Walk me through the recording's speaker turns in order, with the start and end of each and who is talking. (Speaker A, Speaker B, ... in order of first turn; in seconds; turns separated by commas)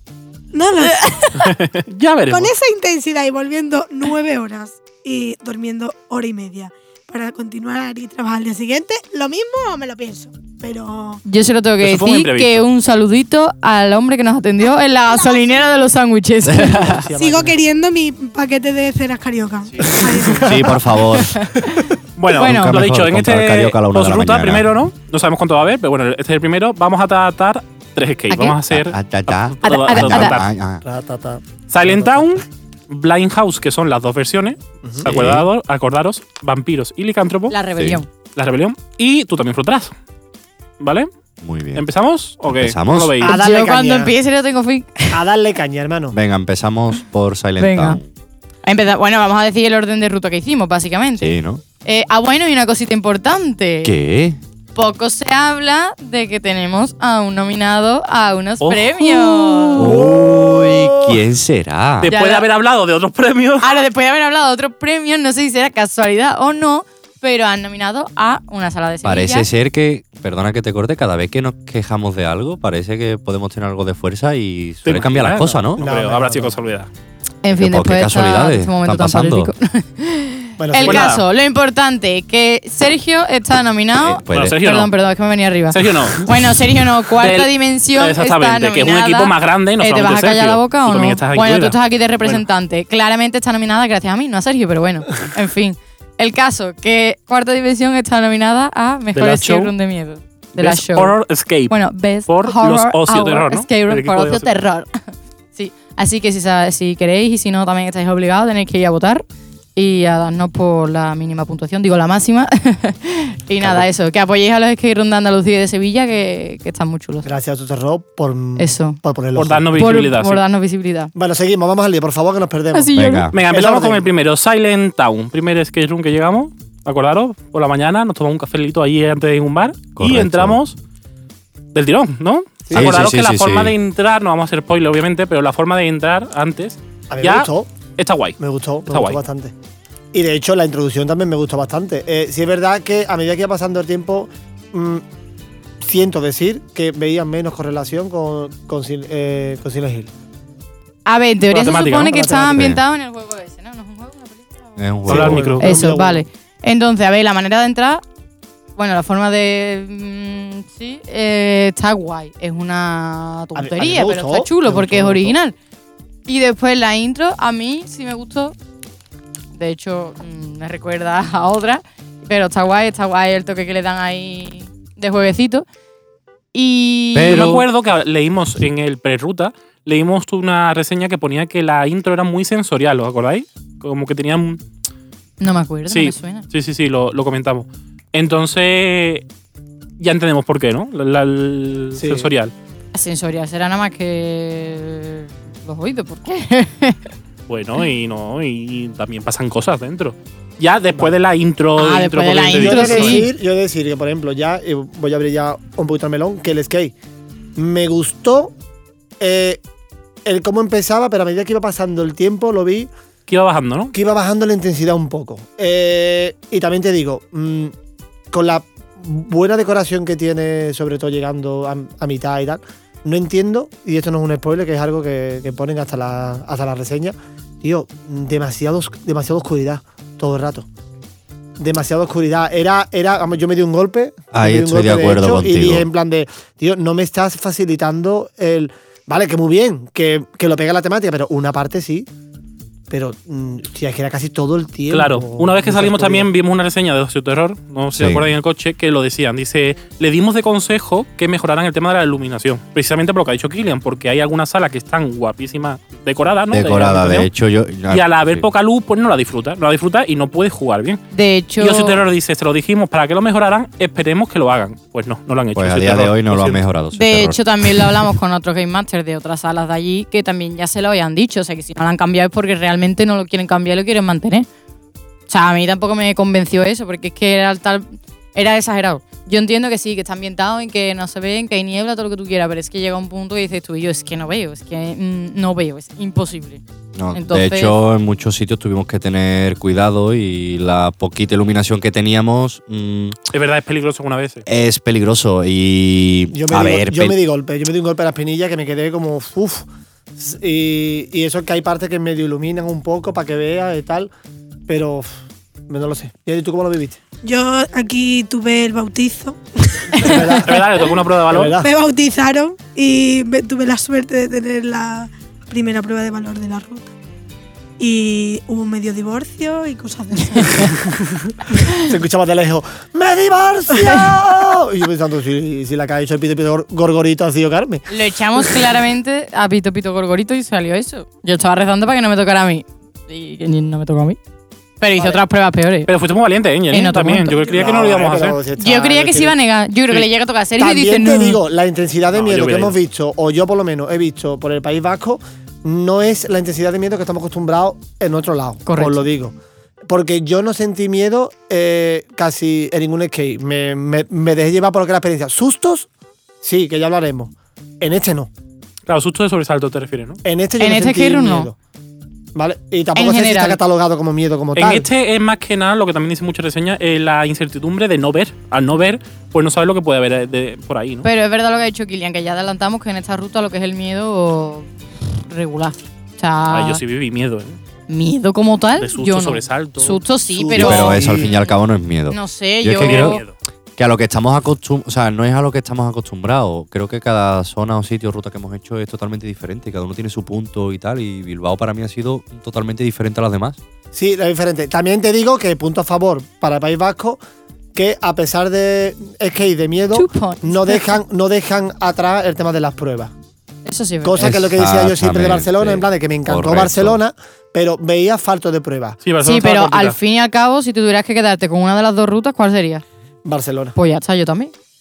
Speaker A: 0.5-1.5, Speaker B: 1.0-1.5, Speaker C: 1.4-2.5, Speaker A: 2.3-11.2, Speaker B: 11.2-17.0, Speaker C: 11.8-12.7, Speaker D: 16.4-17.0, Speaker E: 16.7-17.6, Speaker A: 17.2-20.6, Speaker E: 19.9-21.3, Speaker D: 20.4-21.4, Speaker B: 21.3-22.7, Speaker C: 22.2-30.5, Speaker D: 22.3-24.8, Speaker B: 28.3-28.6, Speaker D: 28.7-30.8, Speaker B: 29.6-30.4, Speaker E: 30.8-32.4, Speaker C: 31.7-37.5, Speaker E: 34.8-35.1, Speaker D: 35.0-35.5, Speaker B: 37.5-38.1, Speaker D: 37.8-38.0, Speaker C: 38.4-39.9, Speaker C: 40.8-41.1, Speaker D: 41.4-41.9, Speaker C: 41.7-43.4, Speaker D: 42.5-43.1, Speaker E: 43.2-44.1, Speaker B: 43.2-45.2, Speaker E: 45.1-46.2, Speaker D: 46.1-48.1, Speaker B: 47.6-48.0, Speaker B: 48.6-53.9, Speaker D: 51.2-51.6, Speaker D: 53.8-54.4, Speaker B: 54.7-60.0, Speaker C: 58.6-59.7, Speaker E: 59.8-61.2, Speaker D: 59.8-62.1, Speaker C: 62.0-63.7, Speaker B: 62.0-62.5, Speaker B: 63.6-69.5, Speaker D: 69.0-75.8, Speaker C: 74.8-76.9, Speaker E: 75.8-76.5, Speaker B: 77.4-101.2, Speaker D: 77.5-79.5, Speaker E: 80.6-81.1, Speaker C: 80.8-81.2, Speaker D: 83.9-84.6, Speaker C: 84.3-84.9, Speaker C: 85.7-86.4, Speaker C: 87.2-92.4, Speaker C: 99.1-99.7, Speaker C: 100.5-104.5, Speaker B: 101.7-109.2, Speaker B: 109.8-117.3, Speaker E: 113.6-113.9, Speaker E: 117.2-120.0, Speaker B: 118.6-119.0, Speaker C: 119.3-120.4, Speaker B: 119.8-121.1, Speaker E: 121.1-124.1, Speaker B: 122.7-123.3, Speaker D: 122.9-123.4, Speaker C: 123.3-130.8, Speaker D: 129.9-130.6, Speaker C: 131.7-139.2, Speaker E: 132.7-133.1, Speaker D: 132.7-133.7, Speaker E: 137.1-137.7, Speaker E: 138.4-139.5, Speaker E: 140.1-145.0, Speaker E: 145.8-150.1, Speaker B: 151.1-154.8, Speaker C: 151.5-152.1, Speaker E: 152.0-152.7, Speaker D: 152.6-152.8, Speaker D: 154.8-155.5, Speaker E: 155.1-156.2, Speaker C: 155.1-155.7, Speaker B: 155.6-158.0, Speaker B: 158.8-165.5, Speaker E: 163.6-165.3, Speaker B: 166.3-168.5, Speaker B: 169.5-175.7, Speaker B: 176.5-177.6, Speaker D: 177.1-177.7, Speaker C: 177.2-184.6, Speaker B: 185.4-186.4, Speaker C: 185.9-189.2, Speaker C: 190.0-192.5, Speaker E: 192.0-192.3, Speaker B: 192.9-197.0, Speaker C: 197.5-203.3, Speaker B: 201.8-203.3, Speaker E: 202.6-206.9, Speaker E: 207.6-208.5, Speaker E: 209.2-209.6, Speaker E: 210.2-212.9, Speaker C: 213.3-213.9, Speaker E: 213.9-217.7, Speaker E: 218.3-230.7, Speaker E: 231.6-242.1, Speaker D: 234.3-235.9, Speaker E: 242.9-246.3, Speaker C: 244.9-257.3, Speaker D: 247.9-248.3, Speaker D: 256.5-258.4, Speaker C: 257.9-261.0, Speaker B: 261.1-262.0, Speaker C: 261.6-266.6, Speaker D: 265.5-267.9, Speaker B: 266.9-274.5, Speaker B: 275.3-286.6, Speaker D: 286.9-293.1, Speaker B: 287.1-287.8, Speaker C: 293.3-294.4, Speaker D: 294.4-297.2, Speaker E: 296.3-304.1, Speaker E: 304.7-305.2, Speaker E: 305.7-307.0, Speaker A: 307.2-310.4, Speaker E: 309.9-311.7, Speaker C: 310.4-311.5, Speaker A: 311.6-316.9, Speaker A: 317.8-320.8, Speaker E: 321.8-327.8, Speaker B: 323.8-324.1, Speaker B: 327.9-334.2, Speaker B: 334.8-335.9, Speaker E: 335.0-335.2, Speaker C: 335.9-338.4, Speaker B: 336.7-337.4, Speaker E: 337.4-339.3, Speaker B: 338.6-341.4, Speaker E: 340.6-349.4, Speaker C: 342.1-342.8, Speaker B: 348.6-349.0, Speaker E: 349.9-355.9, Speaker E: 356.4-358.3, Speaker C: 358.9-360.2, Speaker E: 360.2-361.5, Speaker B: 360.6-361.5, Speaker E: 362.3-364.9, Speaker B: 362.9-363.6, Speaker C: 364.6-371.1, Speaker B: 371.0-376.8, Speaker C: 376.5-377.6, Speaker B: 377.9-381.5, Speaker C: 378.8-380.0, Speaker E: 380.3-381.3, Speaker D: 380.5-383.2, Speaker B: 382.1-383.2, Speaker C: 382.8-383.3, Speaker D: 383.8-393.6, Speaker E: 393.9-397.2, Speaker E: 397.7-403.1, Speaker B: 399.9-401.0, Speaker B: 403.6-404.2, Speaker E: 404.0-409.0, Speaker D: 404.2-407.0, Speaker C: 409.0-410.0, Speaker B: 409.2-412.8, Speaker E: 413.2-413.8, Speaker B: 413.8-414.5